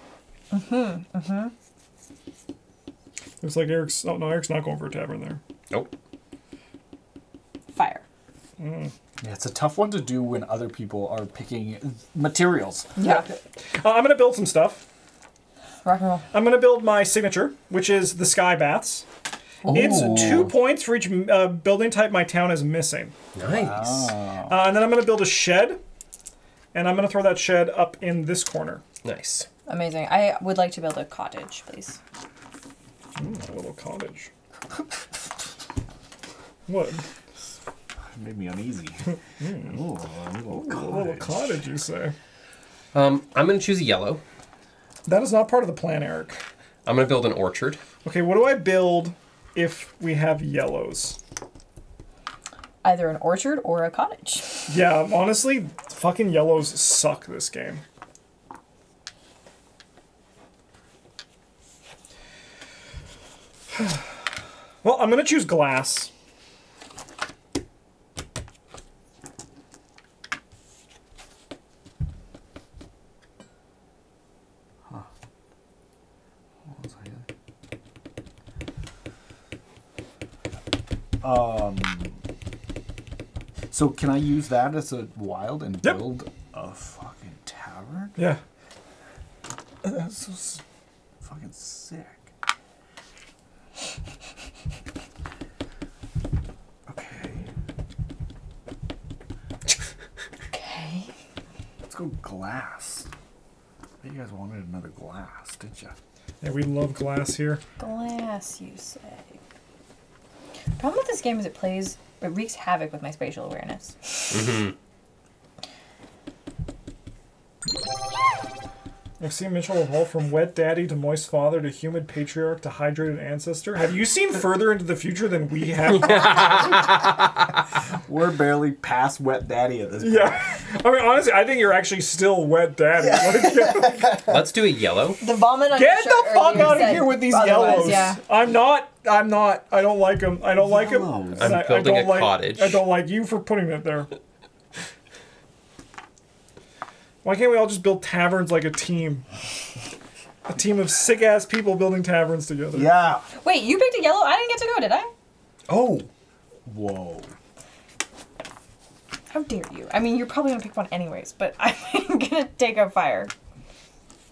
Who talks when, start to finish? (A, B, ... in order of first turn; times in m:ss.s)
0:00.5-0:01.5 A
0:03.4-0:05.4 B
0:07.7-0:08.0 A
0:08.6-0:08.9 B
0:09.2-0:12.9 C
0:13.0-0:13.3 A
0:13.7-0:14.8 B
0:15.8-0:16.3 A
0:16.3-0:19.0 B
0:19.6-0:20.5 D
0:19.7-0:20.3 C
0:19.7-0:23.1 B
0:23.3-0:24.1 D
0:23.4-0:24.6 C
0:24.5-0:25.8 B
0:26.7-0:28.8 B
0:29.0-0:29.5 D
0:29.7-0:32.0 A
0:33.2-0:34.3 B
0:36.7-0:37.0 B
0:38.1-0:39.0 C
0:39.1-0:39.8 B
0:39.6-0:41.4 C
0:40.5-0:42.2 B
0:42.9-0:44.2 D
0:45.1-0:46.4 B
0:46.8-0:47.8 D
0:48.0-0:51.2 B
0:52.8-0:54.7 A
0:54.7-0:57.8 B
1:04.8-1:06.1 B
1:16.7-1:17.3 C
1:21.2-1:22.2 C
1:23.7-1:28.2 C
1:29.8-1:30.6 C
1:31.2-1:32.3 C
1:36.9-1:37.5 C
1:40.5-1:41.1 A
1:41.9-1:43.1 C
1:44.0-1:46.0 C
1:46.4-1:47.6 B
1:47.8-1:49.4 A
1:50.8-1:54.5 A
1:54.3-1:54.7 D
1:59.2-2:06.9 B
2:06.0-2:07.2 D
2:07.9-2:10.5 C
2:10.0-2:14.1 B
2:13.0-2:14.5 C
2:14.2-2:15.2 D
2:15.2-2:18.2 A
2:15.7-2:24.1 B
2:20.6-2:21.6 C
2:21.4-2:22.8 D
2:27.2-2:29.3 B
2:30.5-2:33.0 B
2:32.7-2:33.2 C
2:33.4-2:35.1 A
2:35.7-2:36.1 D
2:36.7-2:37.3 C
2:39.3-2:43.3 A